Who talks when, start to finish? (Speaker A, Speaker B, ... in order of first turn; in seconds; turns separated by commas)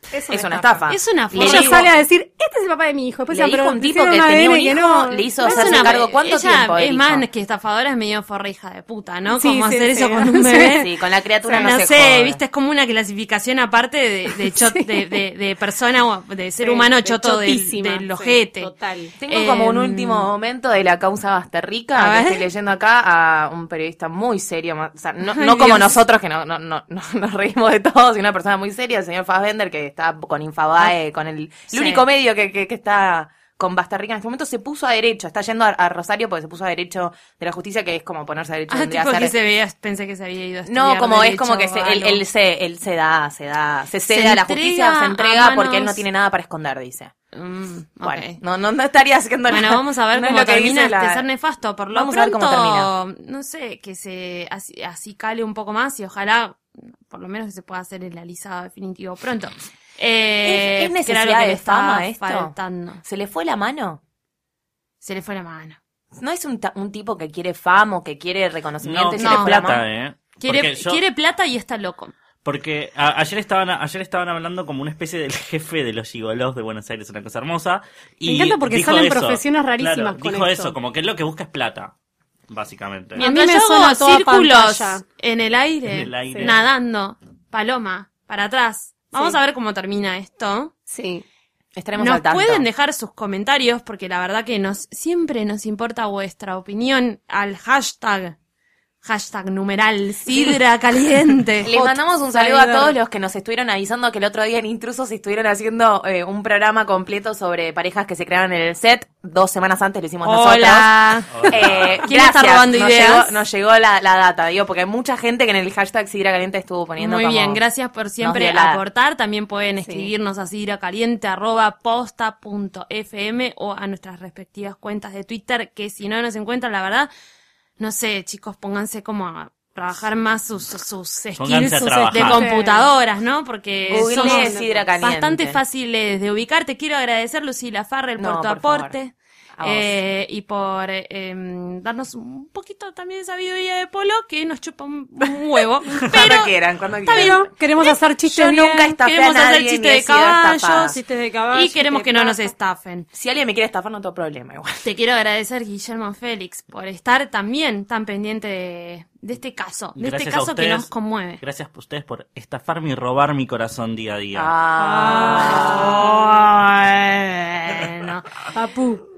Speaker A: 0.1-6.1, Speaker B: 0.3-1.9, Speaker C: 0.9-1.9, Speaker B: 3.3-7.2, Speaker C: 5.4-10.9, Speaker A: 9.3-10.8, Speaker B: 10.8-12.4, Speaker A: 11.4-11.8, Speaker C: 11.5-18.7, Speaker A: 14.4-15.1, Speaker A: 16.6-19.1, Speaker B: 19.1-39.3, Speaker C: 19.3-20.3, Speaker C: 21.9-22.5, Speaker C: 25.2-25.9, Speaker C: 31.7-32.0, Speaker C: 38.7-42.2, Speaker B: 40.6-47.1, Speaker C: 44.1-46.0, Speaker C: 47.3-48.4, Speaker B: 48.0-51.2, Speaker C: 49.5-63.0, Speaker B: 51.9-52.9, Speaker B: 60.4-64.0, Speaker C: 65.0-65.8, Speaker B: 66.1-69.8, Speaker D: 68.8-71.0, Speaker C: 69.2-69.6, Speaker C: 70.4-72.1, Speaker D: 72.4-81.9, Speaker A: 78.2-80.7, Speaker D: 82.5-83.2, Speaker A: 83.2-85.0, Speaker C: 83.2-90.7, Speaker D: 85.9-86.6, Speaker A: 90.9-91.2, Speaker B: 91.8-92.6, Speaker C: 92.0-98.3, Speaker C: 99.0-101.7, Speaker B: 101.7-117.6, Speaker A: 101.7-102.9, Speaker C: 110.2-113.4, Speaker D: 111.3-112.0, Speaker C: 117.0-127.1, Speaker B: 118.2-118.8, Speaker A: 119.8-120.1, Speaker C: 127.8-147.9, Speaker D: 131.4-132.5, Speaker A: 132.1-132.9, Speaker A: 133.9-134.8, Speaker B: 133.9-135.6, Speaker B: 138.2-138.9, Speaker B: 139.6-139.9, Speaker B: 146.0-147.5, Speaker A: 147.1-148.9, Speaker B: 148.3-151.0, Speaker C: 148.9-151.0, Speaker A: 150.8-152.5, Speaker C: 151.5-153.1, Speaker B: 153.1-154.8, Speaker C: 154.8-161.4, Speaker D: 160.0-164.5, Speaker B: 164.3-165.9, Speaker A: 164.8-166.0, Speaker C: 165.1-168.3, Speaker A: 168.5-169.0